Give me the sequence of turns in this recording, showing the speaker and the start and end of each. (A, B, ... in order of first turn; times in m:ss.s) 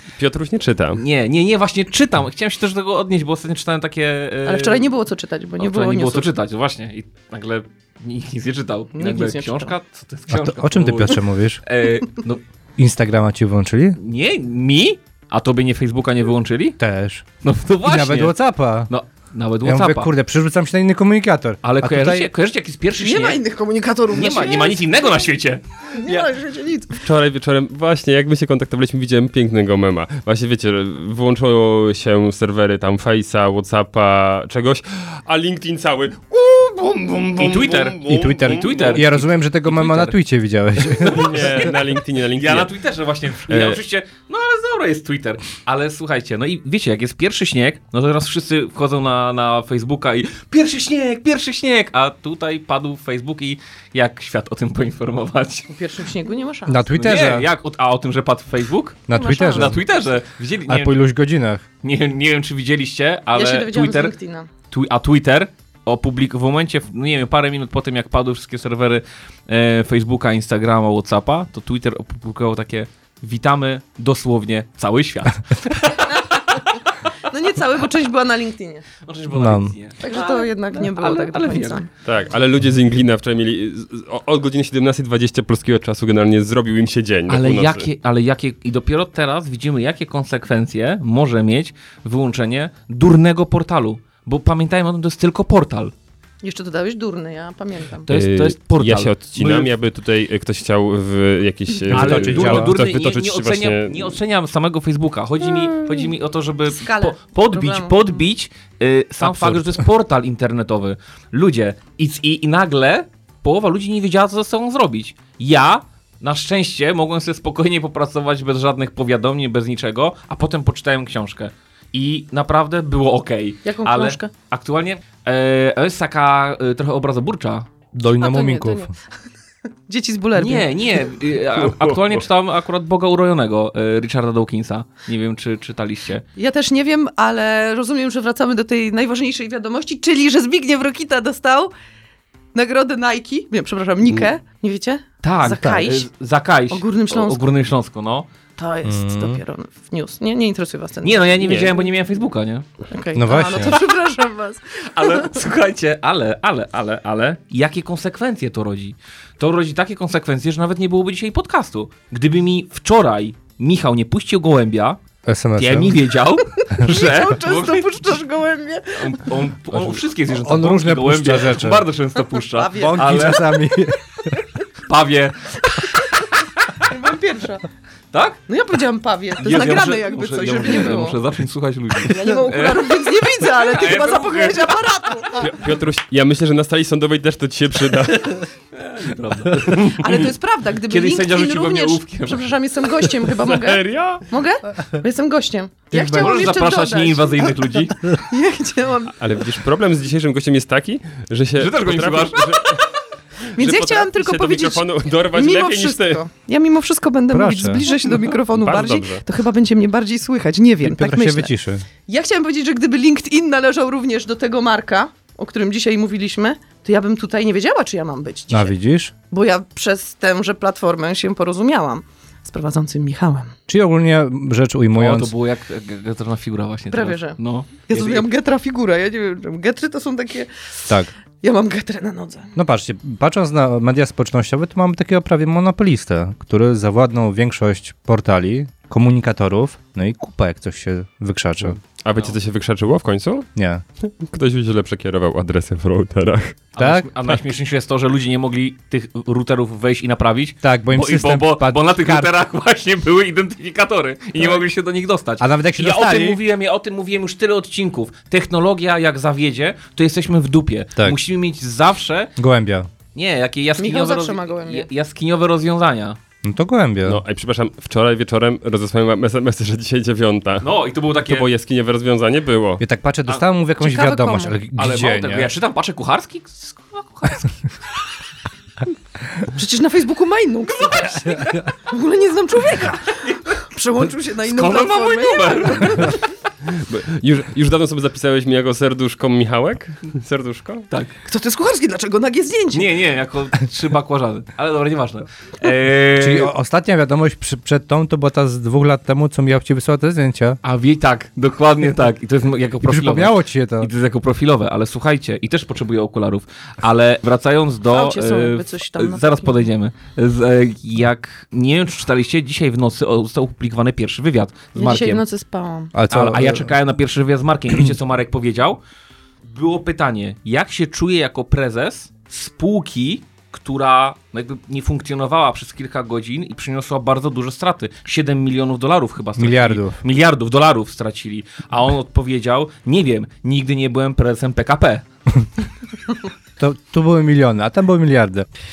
0:00.2-0:01.0 A
0:00.9-0:04.9 B
0:04.4-0:06.3 C
0:05.6-0:12.4 B
0:08.9-0:09.7 C
0:10.3-0:11.6 D
0:12.8-0:14.0 D
0:14.0-0:16.8 B
0:16.8-0:17.2 D
0:17.4-0:18.3 B
0:17.8-0:18.9 D
0:18.9-0:20.1 B
0:19.6-0:22.3 D
0:21.6-0:23.4 B
0:23.0-0:25.0 C
0:24.1-0:26.3 B
0:25.9-0:27.0 C
0:27.0-0:39.0 A
0:37.4-0:40.2 B
0:38.0-0:41.7 D
0:40.8-0:55.7 B
0:41.0-0:42.7 A
0:43.5-0:43.8 A
0:55.7-0:56.8 C
0:56.6-0:57.5 D
0:56.9-1:01.0 B
0:59.1-0:59.8 D
0:59.1-0:59.7 C
1:00.7-1:01.6 D
1:01.8-1:04.1 B
1:03.3-1:04.5 C
1:04.7-1:16.6 B
1:17.3-1:18.8 C
1:19.0-1:21.8 B
1:19.3-1:19.8 D
1:20.0-1:21.9 C
1:22.0-1:27.9 A
1:27.3-1:35.9 B
1:36.4-1:38.1 C
1:38.1-1:39.7 B
1:38.1-1:44.2 A
1:41.9-1:42.8 D
1:41.9-2:07.7 B
1:46.7-1:48.2 C
1:49.2-1:49.7 A
2:03.6-2:04.3 C
2:07.9-2:08.9 D
2:08.2-2:08.9 C
2:09.9-2:10.7 C
2:10.3-2:16.2 B
2:16.4-2:21.7 C
2:22.5-2:26.1 C
2:25.2-2:28.3 B
2:26.7-2:27.4 C
2:28.6-2:31.4 C
2:28.8-2:29.4 D
2:31.0-2:32.6 B
2:32.9-2:35.4 C
2:33.1-2:33.8 D
2:34.8-2:45.0 B
2:45.2-2:46.1 D
2:45.6-2:47.9 B
2:46.7-2:49.3 C
2:48.9-2:53.5 B
2:50.3-2:51.9 D
2:52.5-2:53.4 C
2:52.7-2:54.3 D
2:54.9-2:55.6 B
2:56.6-2:56.8 B
2:56.8-2:57.6 C
2:58.1-2:58.4 B
2:58.5-3:01.2 C
2:59.4-3:04.8 B
3:02.0-3:05.4 C
3:05.4-3:08.4 A
3:08.7-3:10.3 B
3:09.9-3:19.2 C
3:10.8-3:12.6 B
3:13.3-3:14.2 A
3:15.9-3:16.5 D
3:16.0-3:18.1 B
3:19.2-3:22.9 A
3:21.6-3:22.4 B
3:23.6-3:24.8 C
3:23.6-3:26.2 A
3:25.3-3:31.5 C
3:27.3-3:27.9 D
3:28.4-3:29.2 A
3:30.8-3:31.8 D
3:32.0-3:38.7 C
3:38.5-3:39.1 D
3:39.3-3:43.5 C
3:43.7-3:45.3 D
3:44.9-3:48.3 B
3:46.9-3:50.8 C
3:51.4-3:52.5 C
3:52.5-4:01.8 D
4:02.0-4:03.5 A
4:03.6-4:03.8 D
4:04.0-4:06.6 A
4:06.8-4:22.3 B
4:06.8-4:07.4 D
4:10.6-4:12.3 D
4:15.4-4:16.4 D
4:22.4-4:22.9 D
4:23.1-4:26.2 B
4:23.8-4:24.9 C
4:26.4-4:27.2 D
4:27.0-4:32.8 A
4:30.6-4:31.5 B
4:32.8-4:35.5 D
4:33.8-4:34.6 C
4:34.8-4:37.7 B
4:39.5-4:46.2 C
4:44.4-4:46.2 B
4:46.7-4:50.9 A
4:50.9-4:51.1 B
4:51.2-4:52.9 C
4:52.7-4:56.5 B
4:56.2-5:00.6 D
5:00.6-5:15.2 B
5:02.8-5:03.9 D
5:07.9-5:09.6 C
5:14.7-5:15.9 C
5:14.8-5:15.2 D
5:15.9-5:16.7 D
5:16.1-5:18.8 B
5:19.4-5:35.0 B
5:29.4-5:30.0 D
5:36.6-5:38.5 D